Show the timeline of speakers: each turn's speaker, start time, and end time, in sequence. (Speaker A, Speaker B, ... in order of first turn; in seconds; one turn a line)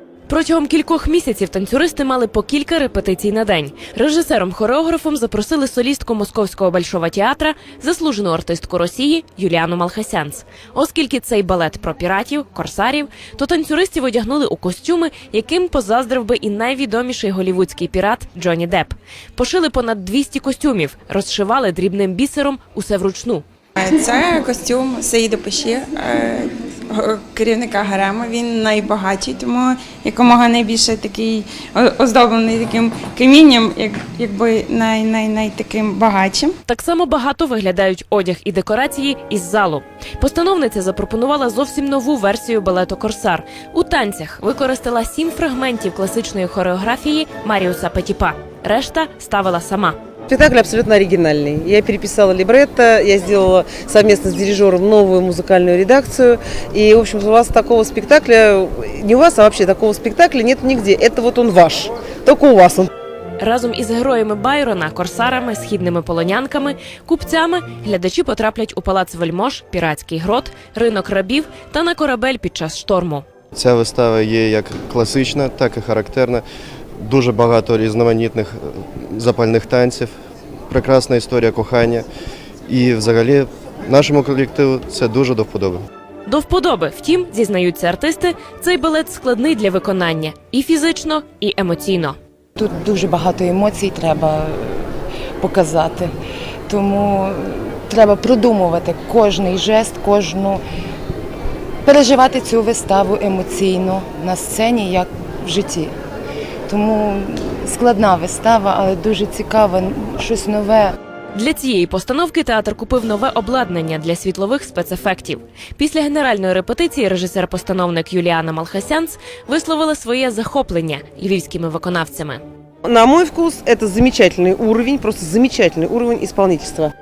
Speaker A: 0.3-23.4
Speaker B: 23.8-36.5
Speaker A: 36.7-50.0
Speaker C: 50.3-62.9
Speaker A: 63.4-73.2
Speaker D: 73.5-76.4
Speaker D: 77.0-80.1
Speaker D: 80.7-82.0
Speaker D: 82.7-85.8
Speaker A: 86.3-92.2
Speaker E: 92.6-94.9
Speaker E: 95.4-96.1
Speaker E: 96.7-100.6
Speaker E: 101.8-105.9
Speaker E: 106.7-110.9
Speaker A: 111.3-122.4
Speaker C: 122.8-126.9